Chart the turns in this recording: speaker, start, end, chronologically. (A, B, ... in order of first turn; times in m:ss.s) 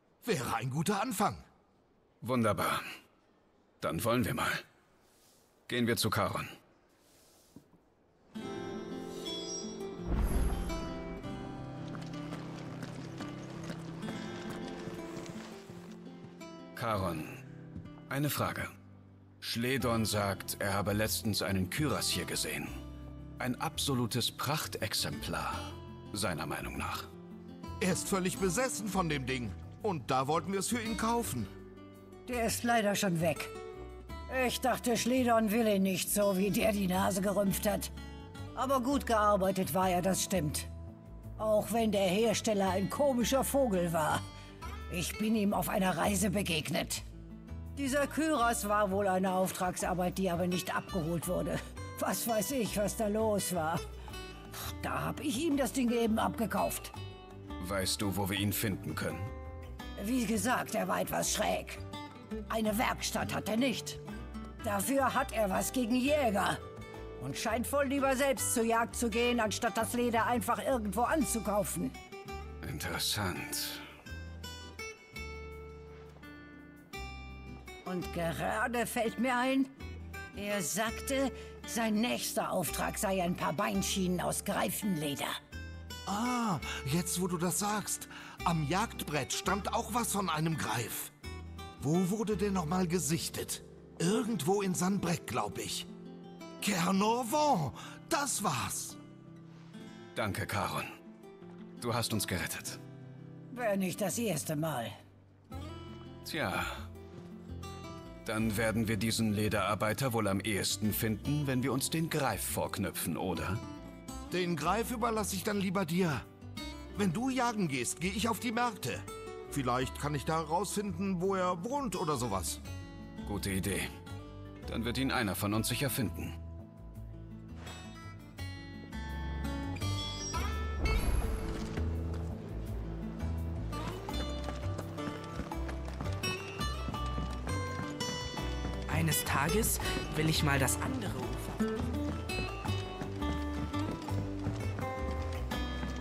0:00.2-0:01.4 A
0:02.2-0:02.8 B
0:03.8-0:04.6 B
0:05.7-0:06.5 B
0:16.8-0:17.4 B
0:18.1-0:18.7 B
0:19.4-0:22.8 B
0:23.4-0:27.1 B
0:27.8-0:31.5 A
0:32.3-0:33.5 C
0:34.3-0:37.9 C
0:38.6-0:40.7 C
0:41.4-0:44.2 C
0:44.9-0:47.0 C
0:47.8-0:53.8 C
0:54.6-0:56.9 C
0:57.6-0:59.3 B
1:00.0-1:01.8 C
1:02.5-1:04.0 C
1:04.6-1:06.6 C
1:07.2-1:12.0 C
1:12.6-1:13.8 B
1:17.9-1:19.7 C
1:20.4-1:25.4 C
1:26.1-1:31.1 A
1:31.8-1:35.9 A
1:36.6-1:39.0 A
1:40.2-1:41.0 B
1:41.8-1:42.8 B
1:43.5-1:45.0 C
1:46.2-1:46.8 B
1:48.2-1:53.6 B
1:54.3-1:56.2 A
1:57.0-2:02.6 A
2:03.2-2:04.0 B
2:04.7-2:06.4 B
2:18.9-2:21.6 D